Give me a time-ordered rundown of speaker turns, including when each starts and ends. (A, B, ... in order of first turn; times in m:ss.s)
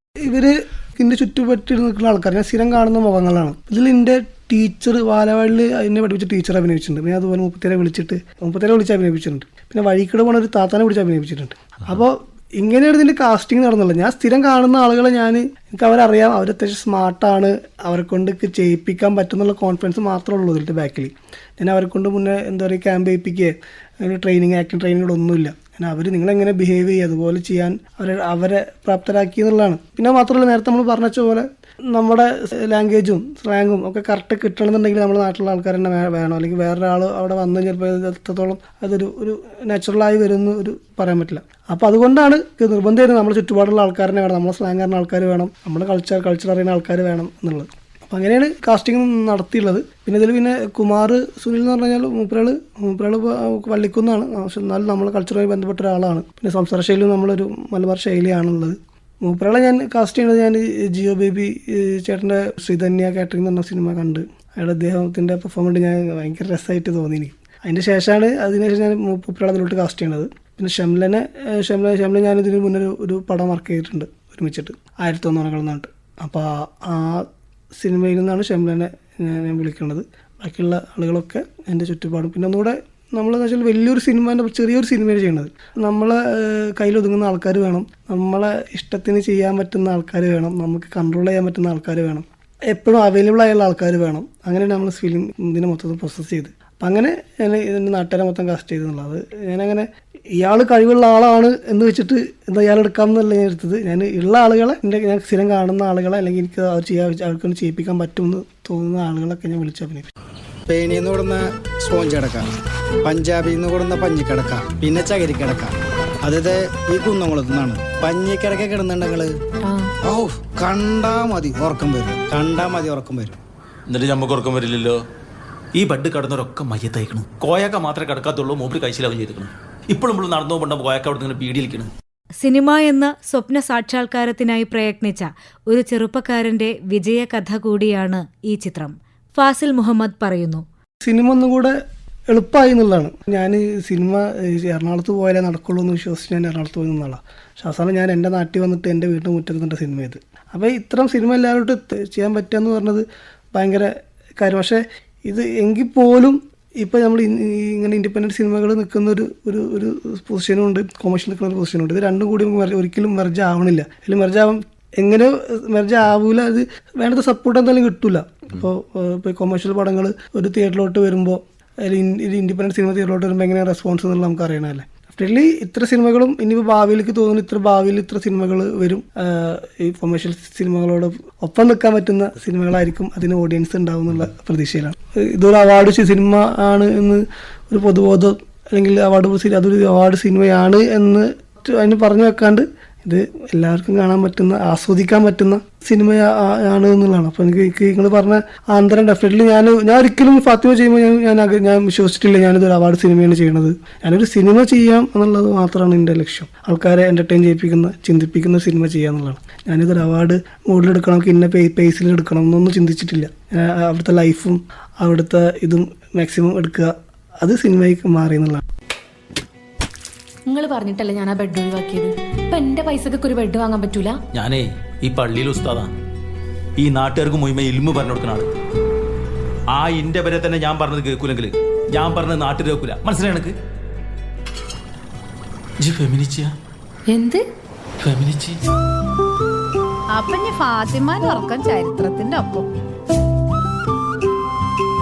0:00.3-1:39.9 A
1:40.4-1:50.1 A
1:50.7-1:52.5 B
1:53.0-1:59.3 B
2:00.0-2:03.4 B
2:03.9-2:05.0 C
2:05.8-2:11.9 C
2:12.4-2:20.6 D
2:21.0-2:21.8 A
2:22.3-3:38.6 A
3:40.5-3:44.2 E
3:44.3-3:45.9 C
3:46.8-3:48.5 C
3:49.7-3:53.6 C
3:55.8-3:56.5 C
3:57.1-3:57.4 E
3:58.0-3:58.6 C
4:00.1-4:02.7 F